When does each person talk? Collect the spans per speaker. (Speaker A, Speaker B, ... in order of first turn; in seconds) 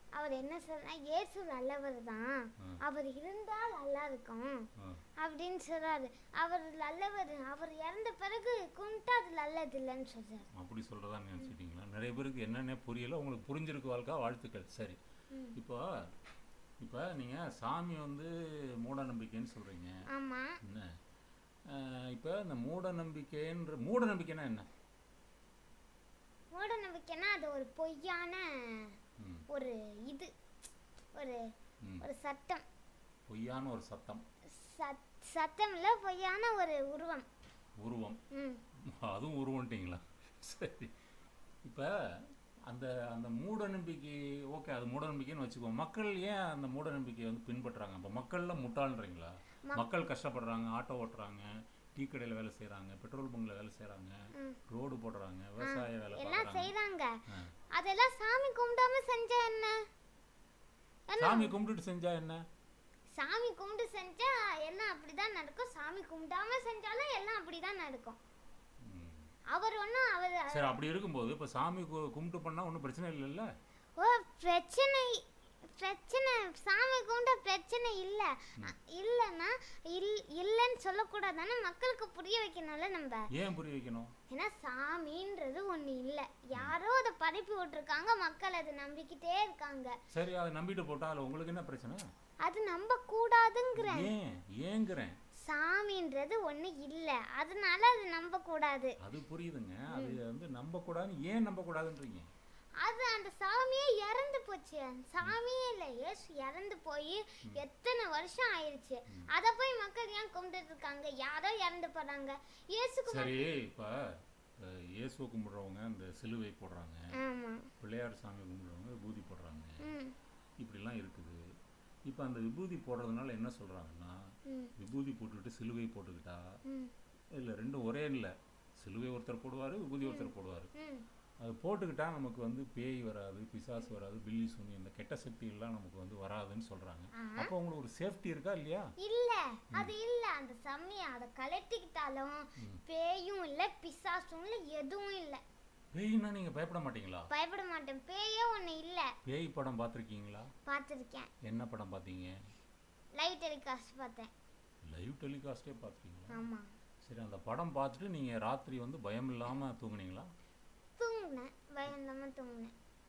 Speaker A: 0.1-4.7, 5.2-10.5, 15.3-15.6, 20.1-20.6, 26.5-28.9, 29.5-30.3, 31.1-32.6, 34.5-37.3, 38.3-38.6, 54.3-54.6, 55.6-57.1, 57.7-59.8, 61.1-61.5, 63.1-68.2, 69.5-70.7, 74.0-83.2, 84.3-89.9, 92.4-94.1, 95.4-99.0, 99.9-100.2, 102.8-113.4, 117.1-117.7, 119.8-120.1, 126.7-126.9, 130.0-131.1, 137.1-137.5, 139.0-145.4, 147.3-149.1, 150.7-151.3, 153.2-154.3, 156.3-156.7, 161.0-162.7
Speaker B: 10.5-15.0, 15.6-16.1, 16.8-20.0, 20.6-21.0, 21.7-24.7, 29.2-29.4, 33.3-34.2, 37.8-38.2, 38.8-40.9, 41.6-56.7, 61.2-62.4, 68.8-69.3, 70.5-73.5, 83.3-84.1, 90.1-92.0, 93.8-95.2, 99.0-102.3, 113.1-117.0, 117.8-119.9, 120.6-121.4, 122.1-124.2, 124.8-126.5, 127.3-130.7, 131.4-138.9, 145.9-147.3, 149.2-150.5, 151.4-152.3, 154.8-156.4, 157.0-160.3